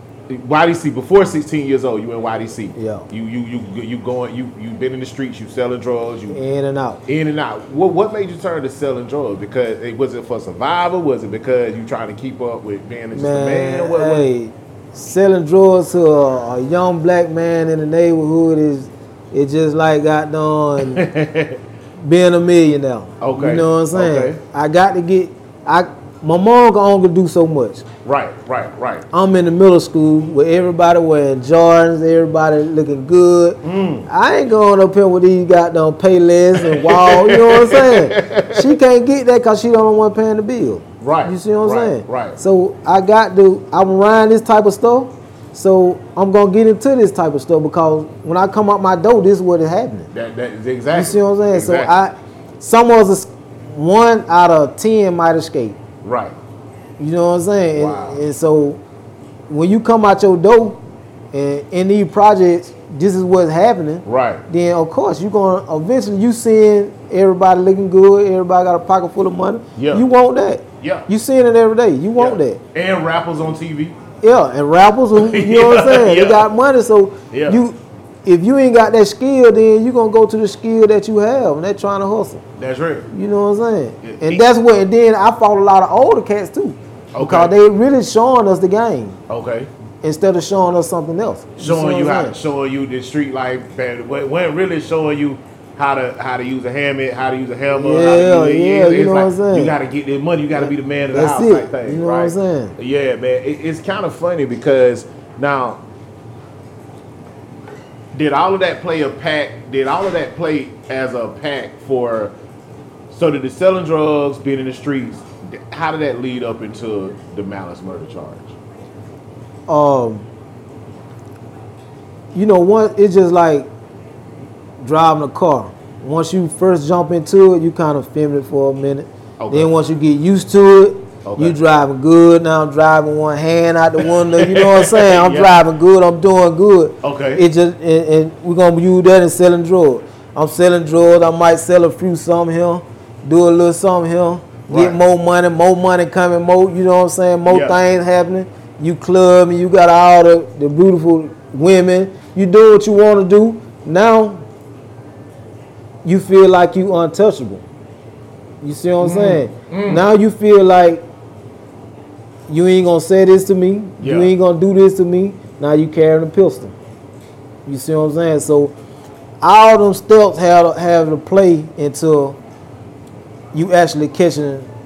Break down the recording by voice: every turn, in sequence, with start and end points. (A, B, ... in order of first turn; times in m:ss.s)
0:00.3-0:06.4 A
0:02.8-0:03.1 B
0:06.3-0:07.0 B
0:07.1-0:14.3 A
0:13.1-0:21.1 B
0:20.8-0:21.6 A
0:22.0-0:27.9 B
0:23.2-0:24.4 A
0:28.0-0:29.1 A
0:29.1-0:50.1 B
0:33.6-0:34.1 A
0:36.6-0:38.8 A
0:41.0-0:42.4 A
0:50.1-0:51.9 A
0:50.9-0:55.8 B
0:56.0-0:56.4 A
0:57.0-0:58.8 B
0:57.8-0:58.2 A
0:59.5-1:00.8 B
1:01.3-1:12.6 B
1:04.1-1:04.4 A
1:09.8-1:10.0 A
1:10.8-1:11.1 A
1:12.2-1:14.0 A
1:14.2-1:22.4 B
1:15.2-1:16.5 A
1:17.3-1:17.6 A
1:22.6-1:23.1 A
1:23.1-1:29.2 B
1:24.0-1:24.4 A
1:27.1-1:27.5 A
1:29.3-1:29.7 A
1:30.0-1:32.4 B
1:31.6-1:45.8 A
1:37.7-1:39.7 B
1:40.6-1:42.8 B
1:48.1-1:52.3 A
1:53.1-1:58.5 A
1:59.7-2:00.3 B
2:02.3-2:03.7 B
2:04.8-2:34.4 B
2:09.4-2:09.7 A
2:11.2-2:11.6 A
2:14.3-2:15.6 A
2:17.0-2:17.4 A
2:24.7-2:25.0 A
2:27.5-2:27.8 A
2:36.0-2:37.6 B
2:38.6-2:41.0 B
2:39.0-2:40.0 A
2:42.5-2:46.8 B
2:44.0-2:44.3 A
2:47.7-2:48.7 B
2:49.4-2:52.4 B
2:53.5-2:54.7 B